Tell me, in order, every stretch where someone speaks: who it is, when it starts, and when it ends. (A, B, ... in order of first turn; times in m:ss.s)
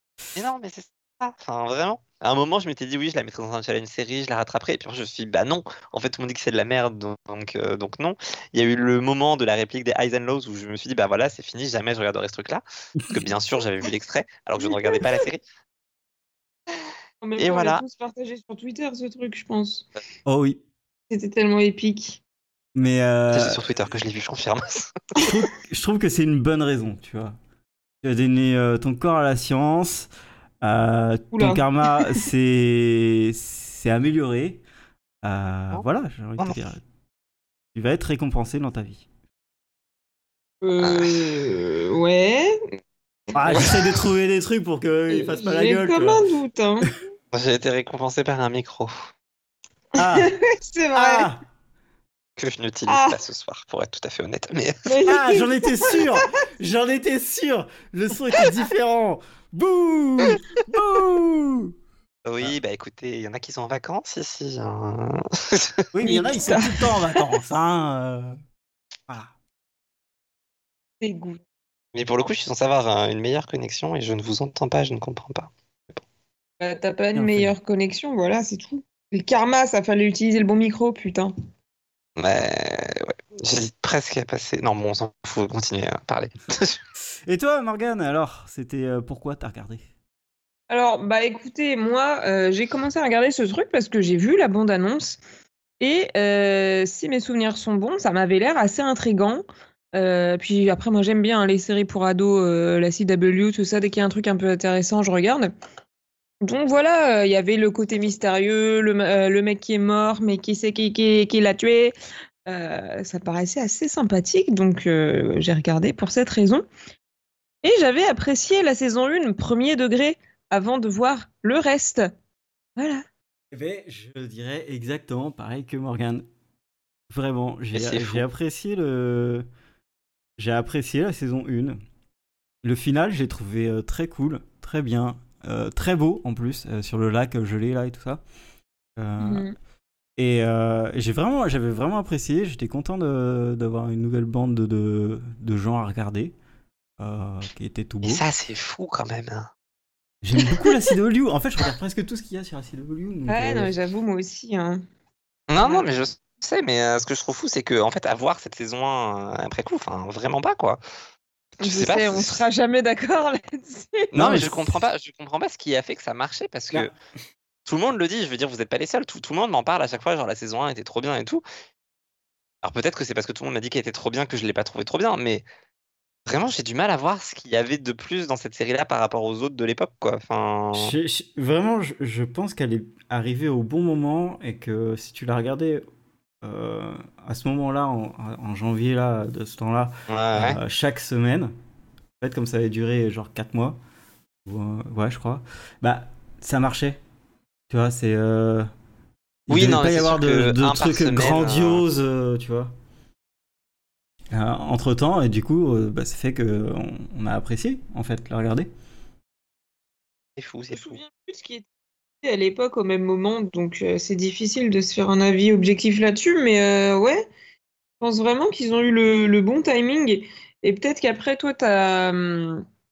0:00.4-0:15.4 A
0:14.6-0:15.2 B
0:17.2-0:19.9 B
0:17.4-0:17.8 A
0:20.3-0:20.6 C
0:21.1-0:22.2 B
0:22.8-0:23.6 C
0:23.3-0:25.0 A
0:25.2-0:27.4 C
0:28.0-0:30.1 C
0:30.6-0:34.6 C
0:31.3-0:32.3 B
0:35.2-0:36.8 C
0:37.8-0:39.1 C
0:40.6-0:42.8 B
0:40.8-0:41.3 A
0:43.3-0:46.2 C
0:43.5-0:44.0 B
0:45.1-0:46.9 B
0:47.3-0:49.0 A
0:50.0-0:50.3 C
0:50.0-0:51.3 B
0:50.9-0:51.4 C
0:52.4-0:54.9 A
0:52.9-0:53.2 B
0:54.8-0:56.3 B
0:55.1-1:01.7 C
1:02.2-1:05.9 A
1:05.9-1:08.4 C
1:06.0-1:06.9 B
1:11.0-1:11.4 B
1:11.9-1:16.0 A
1:16.6-1:21.3 B
1:17.2-1:17.6 C
1:22.2-1:26.8 A
1:27.3-1:29.8 C
1:30.7-1:35.2 B
1:35.8-1:45.5 B
1:46.4-1:52.0 B
1:52.5-1:56.7 B
1:57.6-2:02.1 B
2:02.8-2:03.0 B
2:03.5-2:06.2 C
2:07.1-2:09.5 C
2:07.7-2:08.2 A
2:10.4-2:11.8 C
2:12.6-2:18.2 C
2:19.0-2:19.5 C
2:19.2-2:19.5 B
2:20.2-2:26.4 C
2:27.0-2:28.2 C
2:28.0-2:29.5 A
2:30.2-2:33.7 C
2:33.3-2:34.8 B
2:35.5-2:40.8 A
2:35.6-2:35.9 B
2:41.6-2:42.4 A
2:41.6-2:44.2 B
2:44.1-2:46.9 A
2:44.2-2:44.8 C
2:47.7-2:51.4 A
2:52.6-2:55.4 A
2:56.3-3:00.9 A
3:00.7-3:05.8 C
3:06.4-3:11.5 C
3:10.1-3:10.6 A
3:12.2-3:13.8 C
3:14.5-3:17.0 C
3:17.7-3:18.7 C
3:19.5-3:22.7 C
3:19.5-3:21.8 A
3:24.3-3:28.7 C
3:30.4-3:31.0 A
3:30.7-3:31.7 B
3:32.2-3:37.3 B
3:38.0-3:42.6 B